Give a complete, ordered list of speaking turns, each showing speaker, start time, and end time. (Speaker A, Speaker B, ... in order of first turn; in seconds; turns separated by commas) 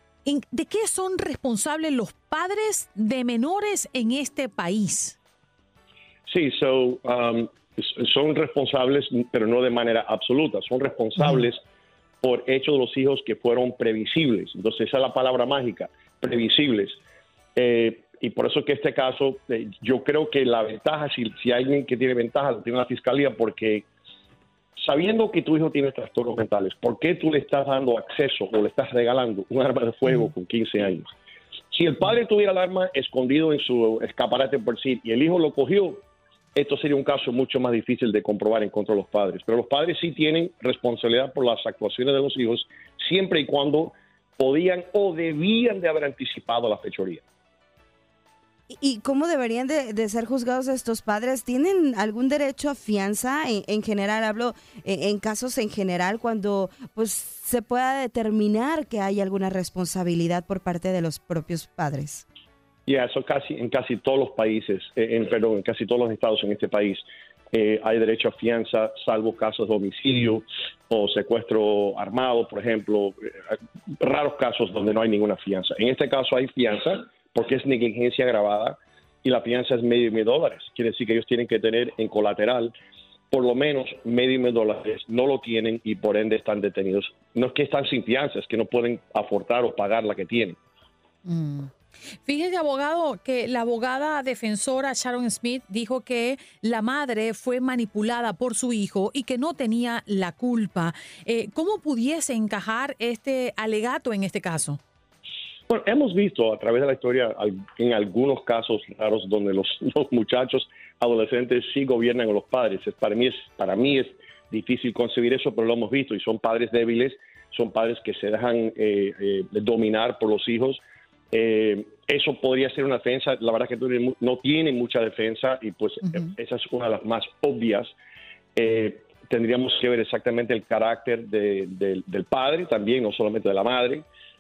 Speaker A: 0.2-5.2, Speaker B: 6.3-11.6, Speaker A: 11.2-11.5, Speaker B: 12.2-17.0, Speaker B: 17.6-23.9, Speaker B: 24.8-31.1, Speaker B: 31.7-36.0, Speaker B: 36.5-47.2, Speaker C: 48.7-62.2, Speaker B: 62.9-82.7, Speaker B: 83.3-90.6, Speaker A: 91.2-91.7, Speaker A: 92.2-104.8, Speaker B: 105.7-120.8, Speaker B: 121.3-127.9, Speaker A: 126.1-126.3, Speaker B: 128.6-134.1